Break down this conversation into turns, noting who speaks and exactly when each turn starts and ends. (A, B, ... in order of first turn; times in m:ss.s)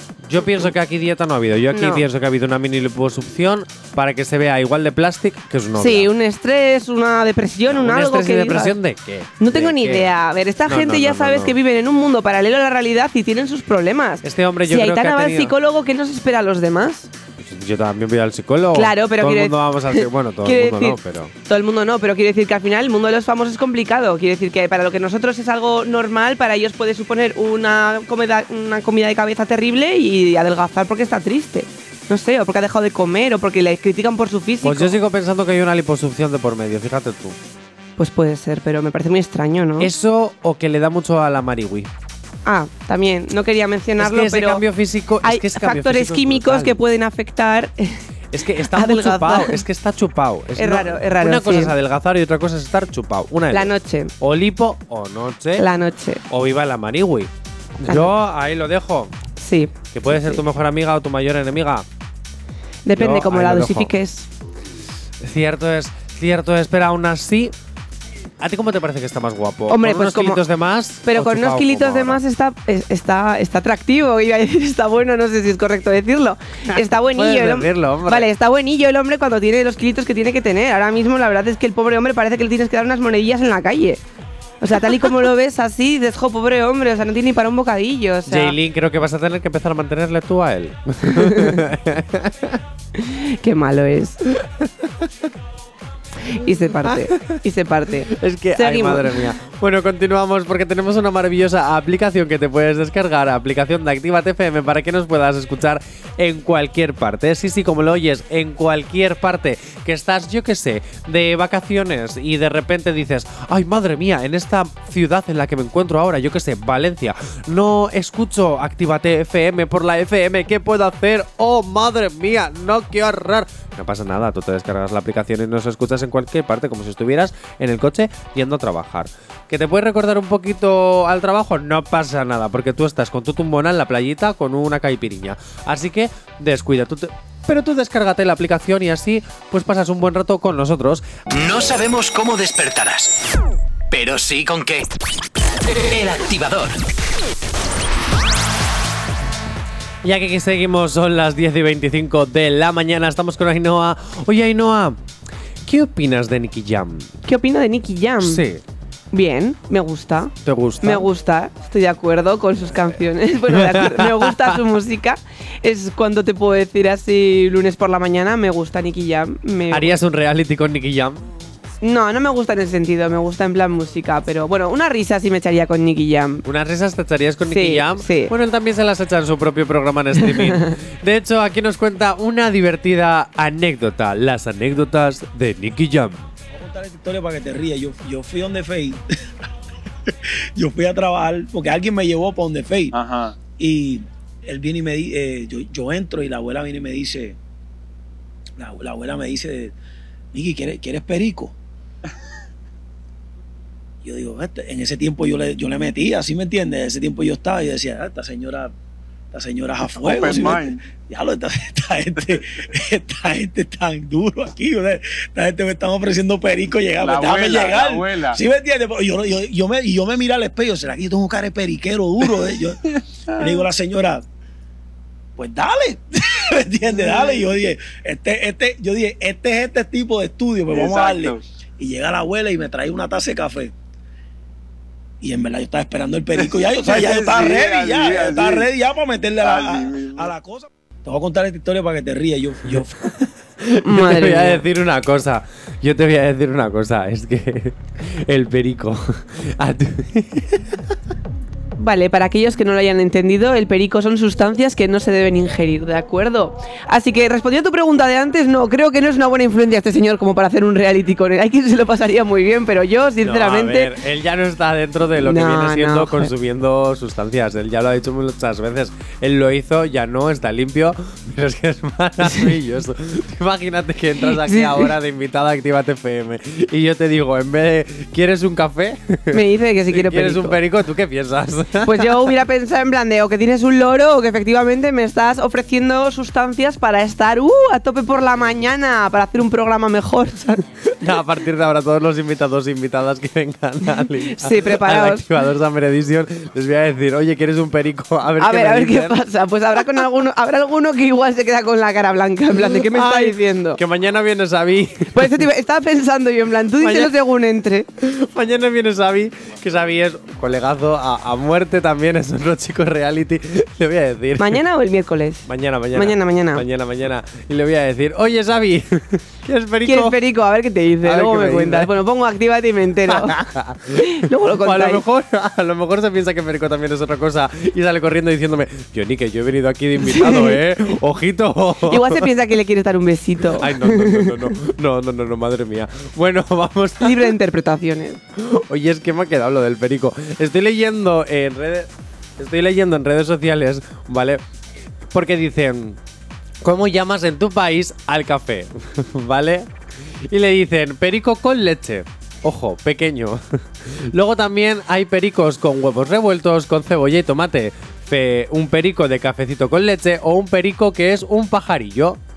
0:00.2-0:06.1 A
0:01.7-0:02.0 B
0:05.8-0:08.7 B
0:07.7-0:10.1 A
0:09.4-0:17.1 B
0:10.6-0:11.6 A
0:14.2-0:15.5 A
0:17.4-0:21.3 A
0:18.7-0:35.0 B
0:34.6-0:37.4 A
0:38.0-0:39.9 B
0:39.8-0:41.9 A
0:42.4-0:44.6 B
0:44.0-0:46.8 A
0:45.2-0:47.9 B
0:48.3-0:55.7 A
0:48.7-0:49.6 B
0:50.6-0:51.7 B
0:53.5-0:54.1 B
0:55.6-0:56.2 B
0:56.3-0:57.3 A
0:57.8-0:59.1 A
0:57.9-0:58.1 B
0:59.4-1:00.4 B
0:59.9-1:01.8 A
1:02.8-1:04.3 B
1:02.9-1:03.9 A
1:05.2-1:07.5 A
1:08.4-1:12.2 A
1:09.7-1:10.4 B
1:11.0-1:24.0 B
1:16.7-1:18.3 A
1:24.6-1:28.5 B
1:28.3-1:32.6 A
1:31.1-1:31.6 B
1:33.0-1:34.2 B
1:34.3-1:34.9 A
1:36.3-1:39.1 B
1:36.8-1:37.3 A
1:38.1-2:21.1 A
2:21.3-2:23.2 C
2:23.9-2:24.9 C
2:25.8-2:26.8 C
2:30.0-2:35.0 A
2:35.6-2:37.1 A
2:37.2-2:38.4 B
2:38.2-2:38.6 A
2:39.1-2:49.9 B
2:40.4-2:41.0 A
2:43.5-2:44.6 A
2:49.7-2:51.2 A
2:51.8-2:56.4 B
2:56.4-3:06.3 A
2:57.4-2:58.3 B
3:00.2-3:00.6 B
3:06.5-3:09.0 D
3:10.1-3:13.0 D
3:12.9-3:13.4 E
3:13.5-3:17.4 D
3:18.6-3:19.7 D
3:20.3-3:21.5 D
3:24.0-3:28.7 D
3:29.3-3:42.8 D
3:30.0-3:30.8 E
3:37.0-3:38.4 E
3:43.3-3:44.2 D
3:45.4-3:53.7 D
3:50.7-3:51.4 E
3:55.2-4:03.0 D
3:56.4-3:58.7 E
3:59.4-4:00.3 E
4:03.6-4:10.8 A
4:03.8-4:04.6 B
4:11.8-4:23.9 B
4:23.2-4:42.3 A
4:25.2-4:26.3 B
4:34.3-4:34.9 B
4:39.3-4:40.6 B
4:41.8-4:50.6 B
4:51.0-4:59.2 A
4:54.0-4:55.2 B
4:58.4-5:03.8 B
5:02.6-5:05.4 A
5:05.1-5:07.9 B
5:06.8-5:07.1 A
5:08.0-5:14.6 A
5:14.4-5:16.6 B
5:15.4-5:20.2 A
5:19.8-5:23.4 B
5:21.0-5:21.9 A
5:23.1-5:32.3 A
5:24.0-5:25.0 B
5:30.0-5:30.6 B
5:31.9-5:34.3 B
5:33.6-5:37.3 A
5:37.0-5:38.2 B
5:38.4-5:44.4 A
5:45.1-5:46.0 A
5:46.6-5:49.7 A
5:50.3-6:02.2 A